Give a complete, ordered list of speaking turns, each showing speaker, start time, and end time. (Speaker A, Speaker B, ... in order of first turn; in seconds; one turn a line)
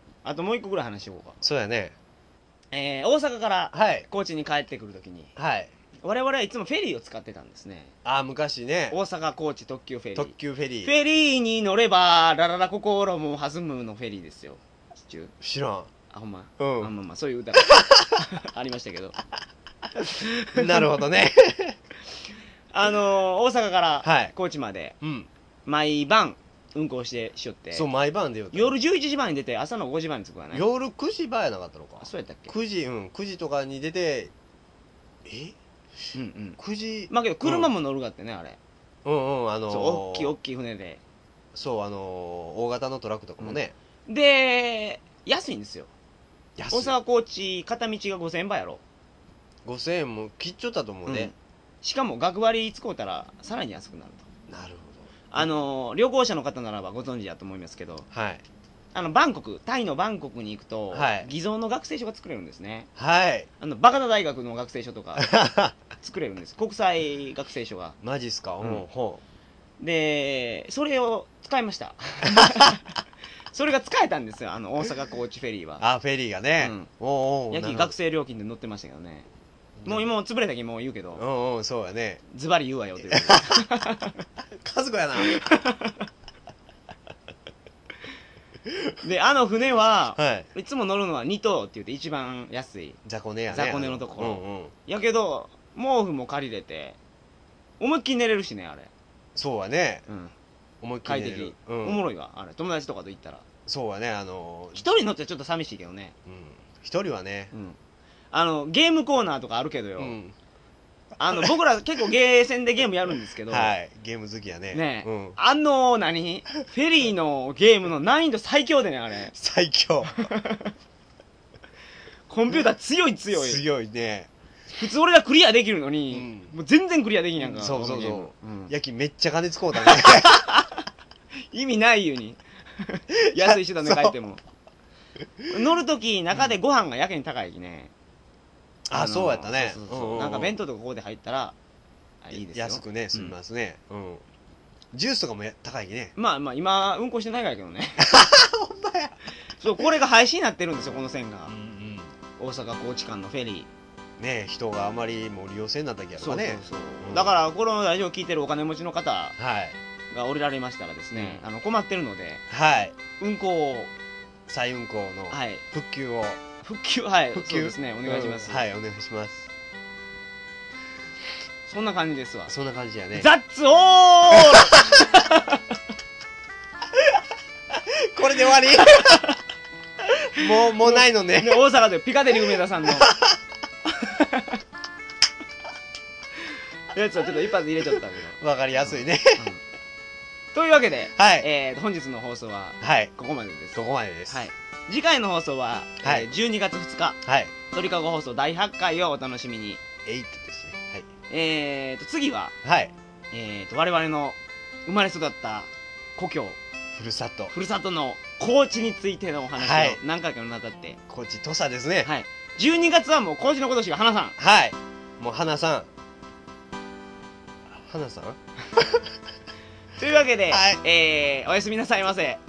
Speaker A: 0.2-1.4
Speaker B: 1.4-1.9
Speaker A: 2.7-5.3
Speaker B: 3.7-4.0
Speaker B: 5.3-5.7
Speaker A: 6.0-7.9
Speaker B: 8.0-9.0
Speaker A: 8.9-15.3
Speaker B: 10.2-10.9
Speaker B: 15.4-15.9
Speaker A: 16.1-19.1
Speaker B: 16.6-16.9
Speaker B: 17.7-18.1
Speaker A: 20.0-20.9
Speaker B: 20.5-21.8
Speaker A: 22.7-24.9
Speaker B: 24.0-24.3
Speaker B: 25.0-25.3
Speaker A: 25.6-27.9
Speaker B: 27.7-28.7
Speaker A: 28.5-30.6
Speaker B: 30.5-34.3
Speaker A: 32.0-32.5
Speaker B: 35.2-35.5
Speaker A: 36.1-38.6
Speaker B: 36.6-37.7
Speaker B: 39.0-40.3
Speaker A: 39.7-41.0
Speaker B: 41.5-43.7
Speaker A: 43.4-45.9
Speaker B: 46.6-46.9
Speaker A: 46.7-48.8
Speaker B: 49.6-51.3
Speaker A: 51.0-54.3
Speaker B: 54.5-55.4
Speaker A: 55.3-58.1
Speaker B: 58.1-58.4
Speaker A: 58.9-62.9
Speaker B: 60.9-61.3
Speaker B: 63.0-63.5
Speaker A: 63.6-65.3
Speaker B: 65.2-65.7
Speaker A: 66.0-68.0
Speaker B: 68.0-69.2
Speaker A: 69.8-72.9
Speaker A: 73.5-75.8
Speaker B: 75.8-77.9
Speaker A: 76.6-76.9
Speaker A: 77.5-79.3
Speaker B: 79.8-80.1
Speaker A: 79.8-81.2
Speaker B: 81.1-82.2
Speaker A: 82.3-84.2
Speaker B: 83.0-83.7
Speaker B: 84.6-85.4
Speaker A: 85.2-86.1
Speaker B: 88.7-88.9
Speaker A: 89.0-97.0
Speaker B: 90.2-90.5
Speaker B: 93.0-94.7
Speaker A: 97.8-98.9
Speaker B: 99.3-100.0
Speaker A: 100.1-100.3
Speaker B: 100.8-102.0
Speaker A: 101.0-103.4
Speaker B: 103.7-104.8
Speaker A: 104.7-106.1
Speaker B: 106.2-107.5
Speaker A: 107.5-107.8
Speaker A: 108.3-110.2
Speaker B: 110.0-110.3
Speaker A: 111.2-113.7
Speaker B: 113.5-115.4
Speaker A: 114.7-119.3
Speaker B: 119.3-120.3
Speaker A: 120.1-120.7
Speaker A: 122.3-123.6
Speaker B: 123.3-124.3
Speaker A: 124.8-128.7
Speaker B: 126.1-126.5
Speaker B: 127.4-130.4
Speaker A: 129.8-130.8
Speaker A: 131.5-134.4
Speaker B: 133.1-134.1
Speaker A: 135.5-137.9
Speaker B: 138.9-140.6
Speaker A: 138.9-141.6
Speaker A: 142.2-143.3
Speaker B: 142.3-144.2
Speaker B: 144.9-146.1
Speaker A: 146.2-148.1
Speaker B: 148.0-149.2
Speaker A: 149.6-151.5
Speaker B: 151.5-152.1
Speaker A: 152.4-153.7
Speaker B: 154.2-157.3
Speaker A: 156.2-159.3
Speaker B: 159.4-159.8
Speaker A: 160.1-162.4
Speaker B: 161.1-161.4
Speaker B: 162.5-162.9
Speaker A: 163.2-163.9
Speaker B: 164.5-166.4
Speaker A: 165.3-165.6
Speaker A: 166.6-168.6
Speaker B: 167.3-169.5
Speaker A: 171.7-172.5
Speaker B: 172.5-173.3
Speaker A: 173.1-175.8
Speaker B: 174.4-174.8
Speaker B: 177.7-179.2
Speaker A: 178.7-179.4
Speaker A: 180.1-183.1
Speaker B: 180.3-181.6
Speaker B: 182.5-183.4
Speaker A: 183.8-184.6
Speaker A: 186.9-189.6
Speaker B: 188.4-189.5
Speaker A: 190.5-197.2
Speaker B: 191.2-191.5
Speaker B: 192.8-193.1
Speaker B: 193.7-194.5
Speaker B: 196.0-196.3
Speaker B: 197.2-197.5
Speaker A: 197.7-199.8
Speaker B: 200.0-201.1
Speaker A: 201.3-202.5
Speaker B: 202.6-202.9
Speaker A: 203.3-206.6
Speaker B: 206.9-207.5
Speaker A: 207.5-211.0
Speaker B: 209.6-210.0
Speaker B: 211.1-212.1
Speaker A: 212.0-214.4
Speaker B: 214.4-215.9
Speaker B: 217.7-219.1
Speaker A: 220.0-222.4
Speaker B: 220.5-220.8